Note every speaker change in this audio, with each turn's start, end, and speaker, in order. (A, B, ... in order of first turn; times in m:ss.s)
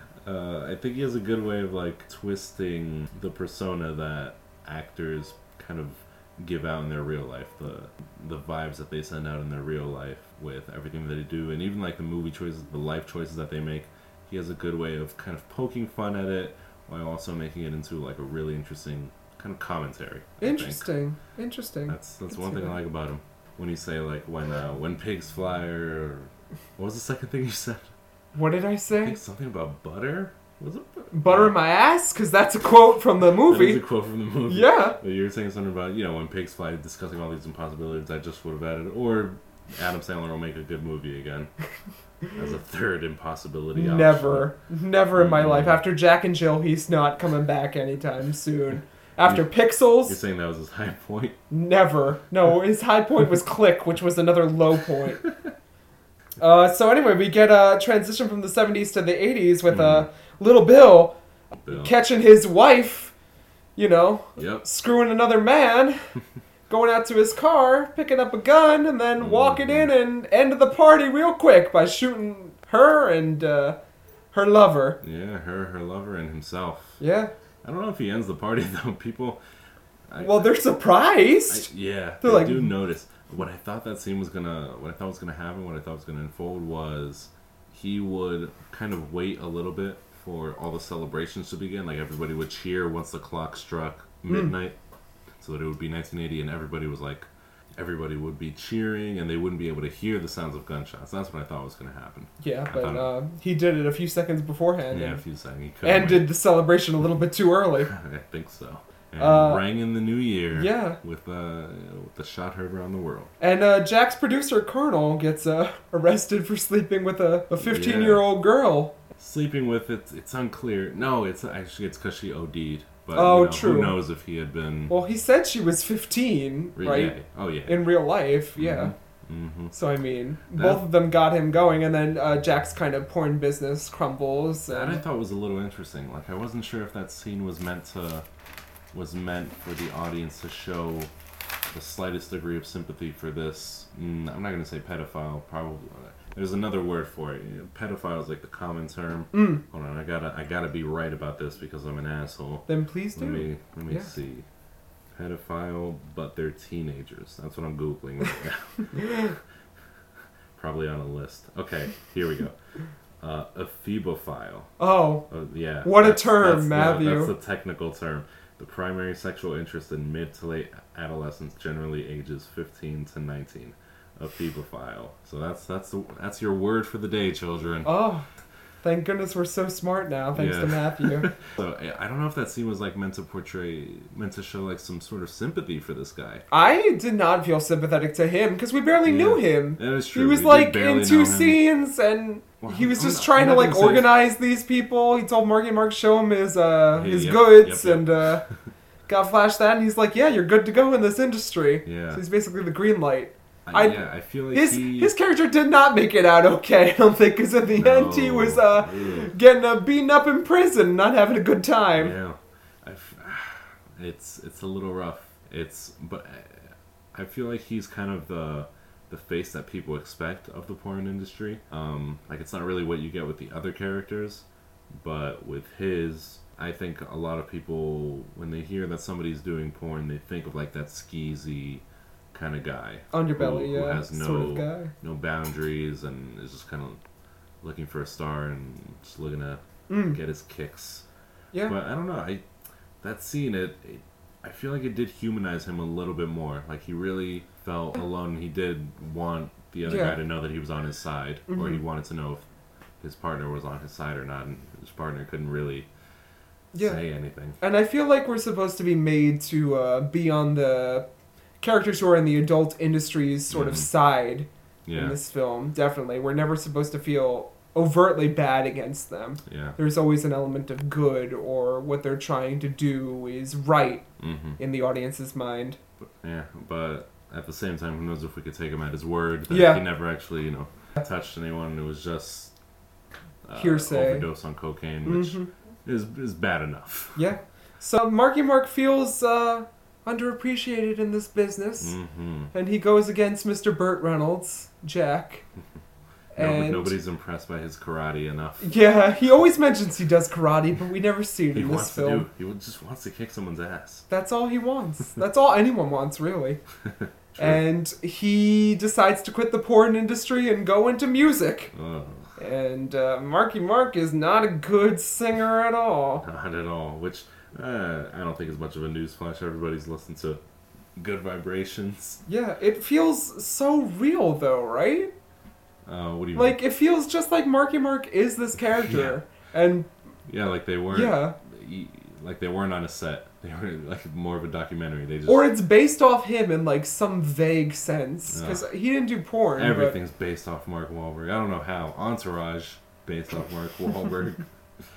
0:00.2-0:20.9 A
0:20.4-0:22.8 B
0:21.9-0:27.9 A
0:28.3-0:29.2 B
0:29.0-0:31.6 A
0:31.1-0:33.8 B
0:33.4-0:41.5 A
0:34.4-0:35.0 B
0:42.4-0:44.5 A
0:43.7-0:50.2 B
0:45.1-0:45.9 A
0:49.2-0:51.4 A
0:51.5-0:55.2 B
0:56.4-1:01.1 B
0:59.7-1:00.1 A
1:01.6-1:01.9 A
1:01.7-1:03.1 B
1:03.8-1:06.0 B
1:04.4-1:04.6 A
1:06.7-1:13.8 B
1:09.2-1:09.9 A
1:14.3-1:15.0 B
1:15.0-1:17.0 A
1:17.0-1:17.3 B
1:17.6-1:19.4 A
1:20.1-1:20.5 A
1:20.2-1:21.7 B
1:21.5-1:34.8 A
1:22.2-1:22.7 B
1:34.3-1:34.5 B
1:35.4-1:43.1 A
1:42.4-1:45.2 B
1:44.9-1:46.3 A
1:45.8-1:47.9 B
1:47.9-1:53.3 A
1:49.2-1:49.6 B
1:50.5-1:51.0 B
1:53.4-1:59.0 B
1:57.6-1:58.3 A
1:59.2-2:04.9 A
2:03.1-2:04.0 B
2:04.9-2:08.9 B
2:06.8-2:07.9 A
2:08.6-2:09.7 A
2:09.7-2:15.0 B
2:10.5-2:10.8 A
2:14.7-2:18.2 A
2:18.9-2:21.1 A
2:21.7-2:34.4 A
2:29.3-2:29.6 B
2:32.7-2:34.1 B
2:35.1-2:39.0 A
2:40.6-2:42.5 A
2:43.2-2:44.7 A
2:44.8-2:45.2 B
2:45.3-2:57.9 A
2:45.8-2:47.3 B
2:57.8-2:58.2 B
2:58.8-3:01.3 B
3:00.3-3:06.4 A
3:06.5-3:18.4 B
3:09.0-3:11.6 A
3:12.6-3:14.2 A
3:16.9-3:18.1 A
3:19.1-3:32.1 B
3:21.8-3:22.2 A
3:23.6-3:25.1 A
3:27.7-3:29.3 A
3:31.9-3:57.0 A
3:53.1-3:54.9 B
3:57.6-4:01.0 A
3:59.9-4:00.2 B
4:01.6-4:02.4 A
4:03.0-4:12.4 A
4:09.8-4:10.2 B
4:11.5-4:11.8 B
4:13.0-4:15.9 A
4:16.7-4:17.0 B
4:16.7-4:17.6 A
4:17.6-4:21.0 B
4:21.6-4:34.0 B
4:23.5-4:23.9 A
4:24.8-4:25.2 A
4:29.4-4:29.8 A
4:34.2-4:34.6 A
4:34.6-4:35.8 B
4:36.0-4:42.5 A
4:39.5-4:39.8 B
4:43.4-4:47.2 A
4:43.6-4:44.3 B
4:45.0-4:45.5 B
4:47.2-4:51.9 B
4:51.8-4:52.5 A
4:52.5-4:55.4 B
4:56.3-4:56.9 B
4:56.4-4:58.7 A
4:58.6-5:02.2 B
5:01.5-5:04.1 A
5:04.1-5:06.6 B
5:06.8-5:07.6 A
5:07.4-5:11.7 B
5:11.7-5:12.3 A
5:12.4-5:16.2 B
5:16.2-5:20.4 A
5:21.0-5:22.2 A
5:22.3-5:25.1 B
5:25.8-5:26.6 A
5:26.3-5:29.9 B
5:28.7-5:29.2 A
5:30.3-5:35.5 A
5:30.9-5:31.3 B
5:35.3-5:40.0 B
5:38.3-5:38.7 A
5:39.6-5:44.4 A